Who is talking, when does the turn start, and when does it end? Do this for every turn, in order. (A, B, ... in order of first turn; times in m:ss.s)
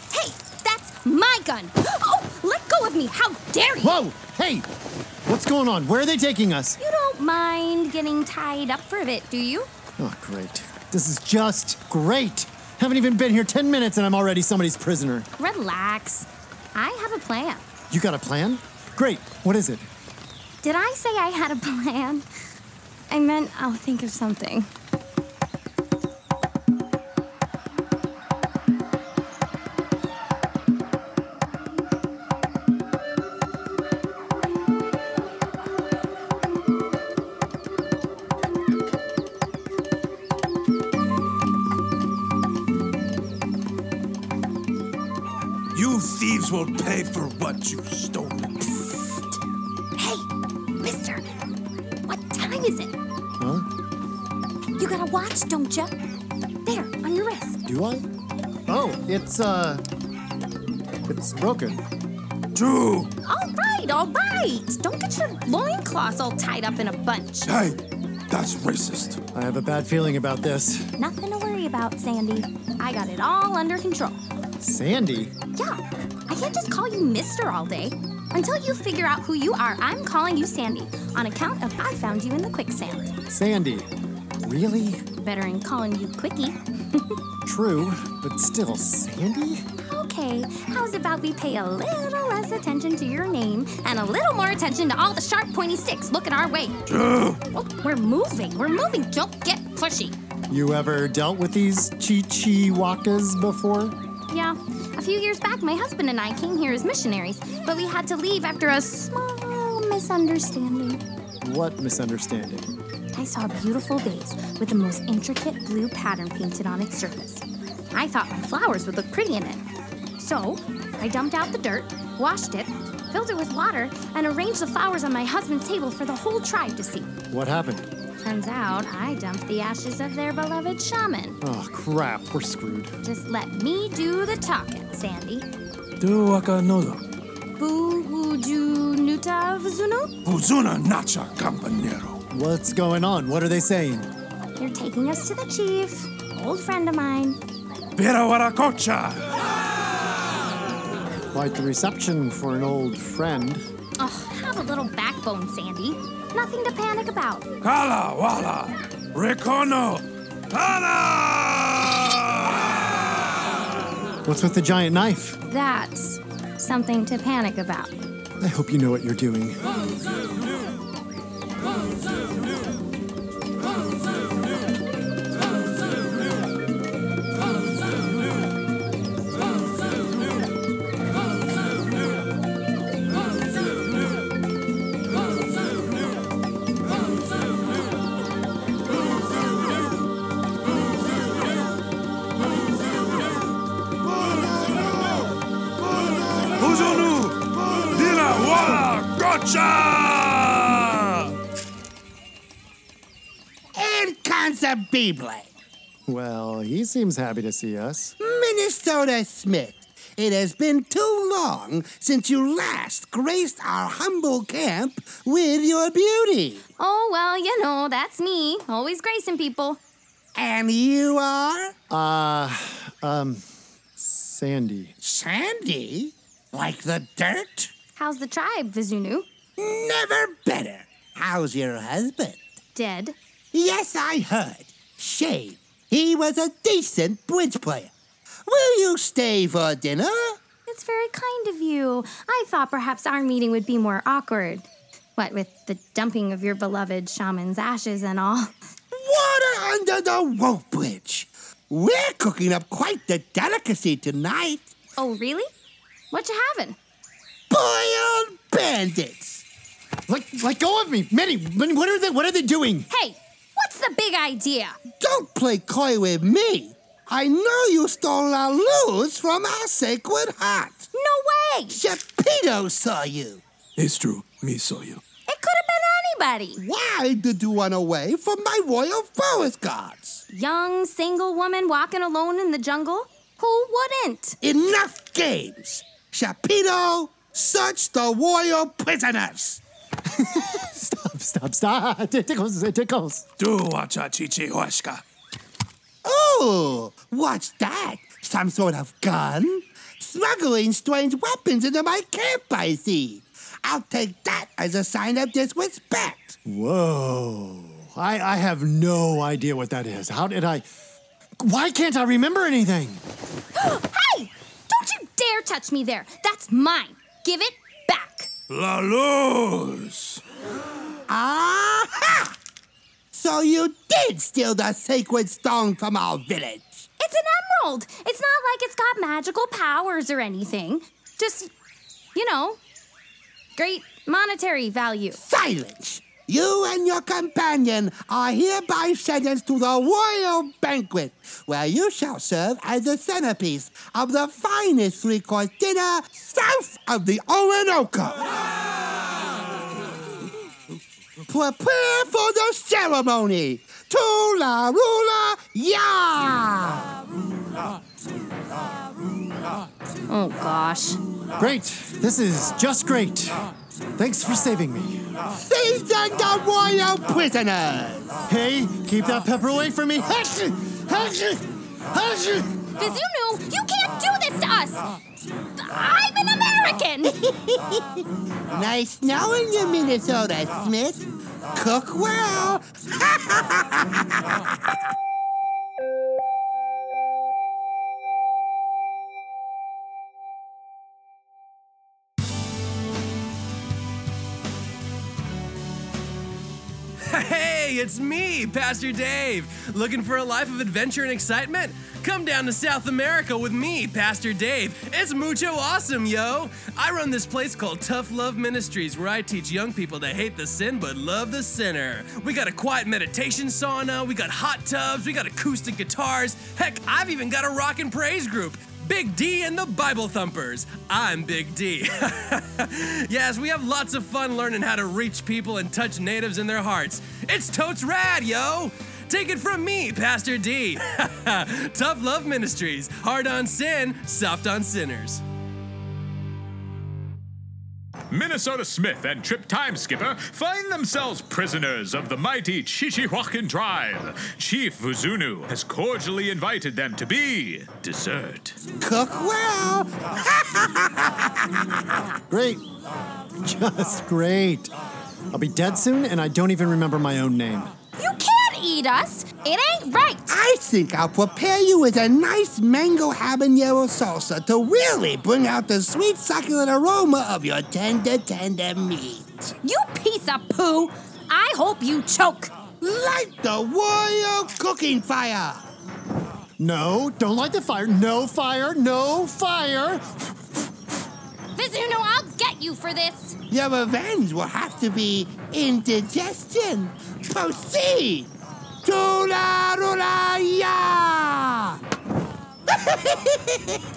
0:00.1-0:04.0 A
0:03.8-0:04.7 B
0:05.2-0:06.8 B
0:06.8-0:09.7 A
0:10.0-0:15.3 B
0:15.4-0:17.6 A
0:17.9-0:19.9 B
0:20.6-0:22.2 A
0:23.1-0:24.7 A
0:45.7-0:48.7 C
0:50.0-0:50.2 A
0:50.8-0:51.2 A
0:52.0-0:52.9 A
0:53.4-0:53.6 B
0:54.8-0:55.9 A
0:56.6-0:57.6 A
0:57.6-0:58.0 B
0:58.7-0:59.8 B
1:01.1-1:01.8 B
1:02.5-1:03.1 C
1:03.2-1:07.5 A
1:07.5-1:07.8 C
1:08.3-1:09.2 C
1:09.3-1:10.9 B
1:11.0-1:14.2 A
1:14.6-1:15.3 B
1:15.5-1:23.1 A
1:23.3-1:23.9 B
1:24.4-1:25.0 B
1:25.2-1:27.1 A
1:27.4-1:29.6 B
1:29.8-1:36.8 A
1:36.9-1:37.4 C
1:37.5-1:40.2 A
1:40.5-1:43.9 B
1:44.3-1:51.0 A
1:51.4-1:52.7 B
1:53.1-1:59.6 A
2:00.2-2:07.1 A
2:07.3-2:07.9 B
2:08.2-2:11.4 A
2:11.4-2:12.9 B
2:13.0-2:15.5 A
2:16.0-2:17.0 C
2:17.6-2:20.1 A
2:20.2-2:22.2 C
2:22.3-2:24.1 B
2:24.6-2:27.4 A
2:28.0-2:29.3 C
2:31.3-2:33.6 B
2:34.0-2:37.5 A
2:37.6-2:42.8 C
2:44.2-2:45.4 B
2:45.5-2:47.9 A
2:48.4-2:49.6 B
3:14.2-3:14.8 D
3:16.0-3:16.6 D
3:16.6-3:21.3 C
3:23.7-3:25.5 D
3:26.1-3:28.1 B
3:28.2-3:36.6 D
3:36.8-3:39.8 A
3:40.3-3:41.7 D
3:41.9-3:43.4 B
3:44.0-3:44.9 B
3:45.0-3:47.7 D
3:48.0-3:49.3 A
3:49.6-3:52.4 D
3:52.7-3:53.1 A
3:53.5-3:57.9 D
3:58.5-4:00.4 D
4:00.7-4:04.6 A
4:05.2-4:08.5 A
4:08.9-4:14.7 D
4:15.0-4:15.5 A
4:16.1-4:16.8 A
4:17.5-4:19.4 D
4:20.1-4:22.9 B
4:22.9-4:24.8 A
4:25.0-4:30.9 D
4:30.9-4:31.8 A
4:31.7-4:33.4 D
4:33.8-4:35.0 C
4:35.3-4:36.6 A
4:36.6-4:40.2 D
4:40.3-4:44.4 A
4:44.4-4:49.6 D
4:50.1-4:53.2 B
4:53.4-4:55.0 C
4:56.0-5:06.4 D
5:06.4-5:10.6 B
5:11.4-5:13.0 B
5:13.5-5:18.3 A
5:18.5-5:20.2 C
5:21.1-5:22.3 D
5:23.1-5:26.9 D
5:27.0-5:31.5 A
5:32.1-5:32.6 A
5:33.6-5:35.2 A
5:35.2-5:48.3 D
5:51.3-5:56.9 D
6:00.1-6:01.0 A
6:01.4-6:03.4 B
6:04.0-6:05.0 B
6:05.4-6:08.2 D
6:08.3-6:12.5 B
6:12.8-6:14.8 A
6:15.6-6:17.1 A
6:17.1-6:24.6 D
6:37.1-7:15.2 E
7:18.1-7:28.6 F
7:28.8-7:32.0 D
7:32.3-7:32.6 B
7:33.4-7:34.7 B
7:35.3-7:37.7 B
7:38.0-7:40.3 A
7:40.3-7:49.5 D
7:49.6-7:52.5 A
7:52.8-7:55.7 D
7:56.6-8:00.3 B
8:01.6-8:03.4 A
8:03.5-8:08.3 D
8:08.8-8:11.8 D
8:12.7-8:13.8 D